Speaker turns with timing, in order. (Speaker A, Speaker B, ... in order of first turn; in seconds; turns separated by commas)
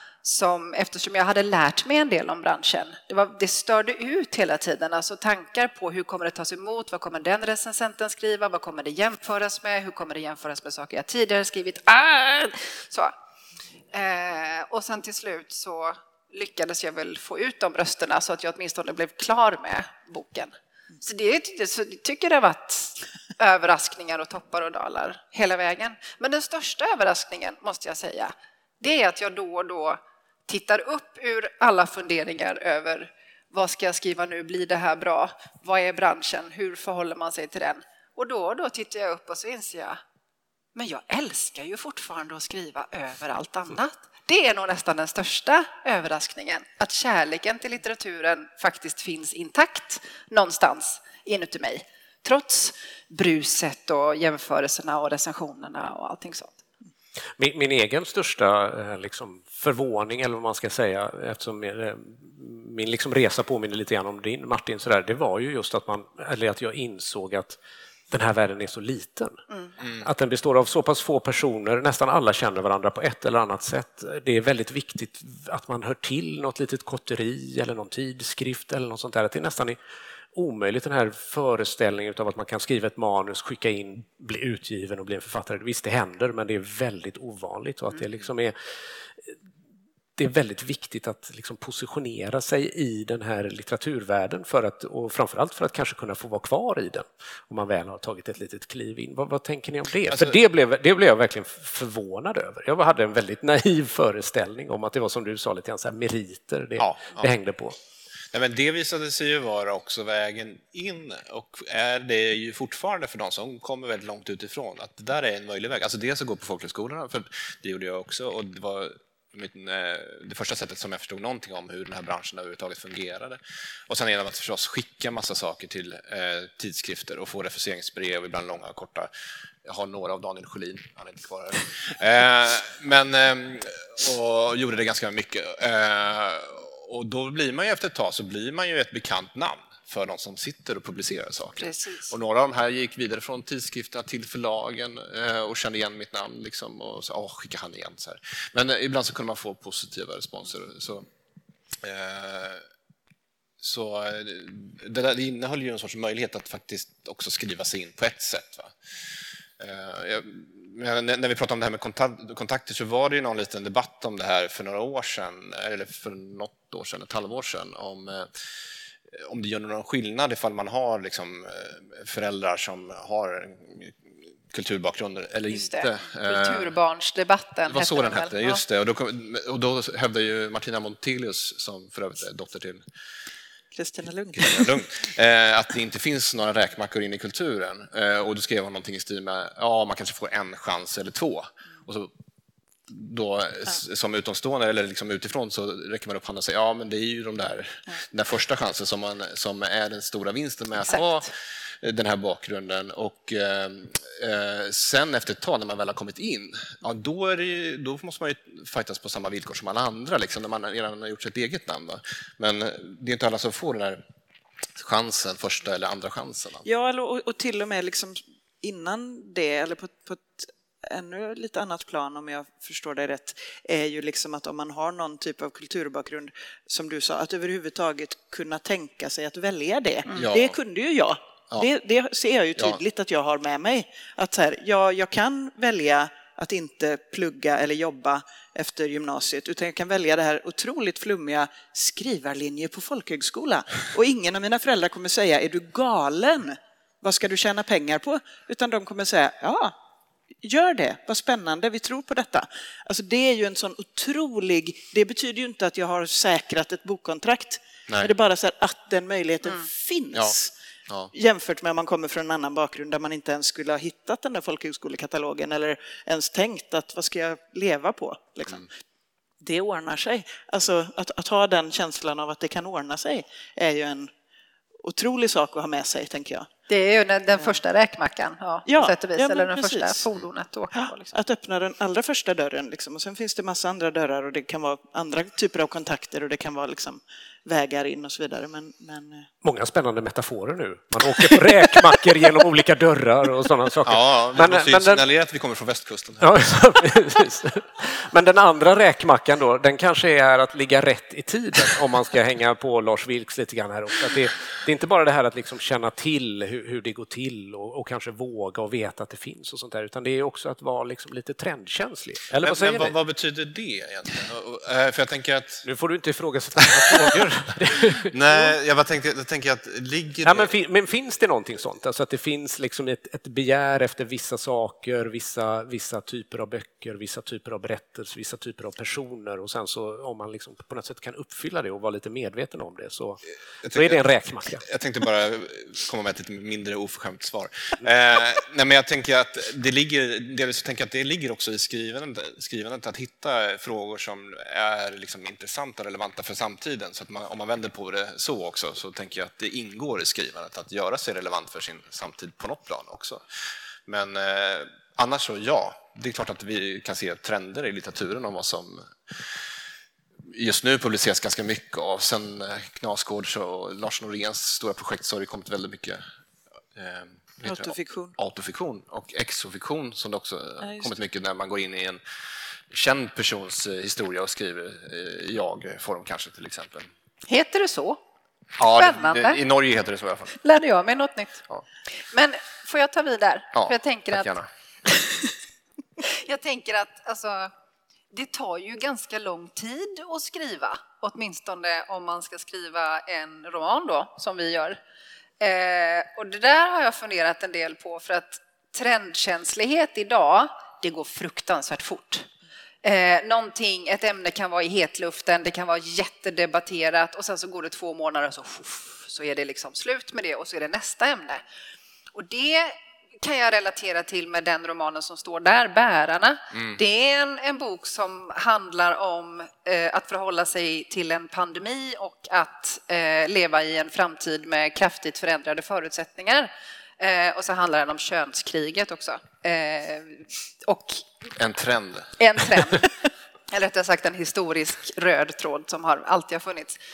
Speaker A: 0.2-13.1, Speaker A: 13.9-40.0, Speaker A: 40.8-56.6, Speaker B: 57.4-67.6, Speaker B: 68.1-79.8, Speaker B: 80.3-88.5, Speaker B: 90.2-107.8, Speaker C: 100.1-100.4, Speaker C: 106.8-107.3, Speaker C: 108.3-129.1, Speaker C: 129.6-151.1, Speaker A: 141.6-142.1, Speaker C: 151.8-152.7, Speaker C: 153.6-158.8, Speaker C: 159.6-168.3, Speaker C: 169.1-176.7, Speaker A: 175.5-178.6, Speaker C: 177.7-182.8, Speaker D: 183.7-184.8, Speaker C: 184.4-192.1, Speaker C: 192.9-214.0, Speaker A: 200.9-201.1, Speaker C: 214.8-216.7, Speaker D: 216.7-249.8, Speaker C: 230.1-230.6, Speaker D: 250.4-260.5, Speaker D: 261.1-268.7, Speaker D: 269.4-274.1, Speaker D: 274.8-276.5, Speaker A: 276.7-281.1, Speaker D: 278.7-280.1, Speaker D: 280.8-289.3, Speaker B: 289.4-295.0, Speaker C: 293.9-296.3, Speaker B: 296.2-312.9, Speaker C: 312.4-315.7, Speaker B: 315.6-318.5, Speaker C: 316.9-317.1, Speaker C: 318.1-320.5, Speaker B: 320.2-334.7, Speaker C: 333.6-353.2, Speaker C: 353.9-359.2, Speaker C: 360.3-366.0, Speaker C: 366.7-372.0, Speaker D: 367.4-368.1, Speaker D: 370.6-370.9, Speaker C: 372.7-376.9, Speaker A: 377.3-378.0, Speaker C: 378.6-380.4, Speaker A: 378.7-379.4, Speaker A: 380.4-381.4, Speaker A: 382.1-384.3, Speaker C: 383.5-384.5, Speaker A: 386.0-387.5, Speaker A: 388.1-394.8, Speaker A: 395.4-402.3, Speaker A: 402.8-411.4, Speaker A: 412.1-431.1, Speaker C: 431.4-432.6, Speaker A: 432.2-432.9, Speaker A: 433.5-436.8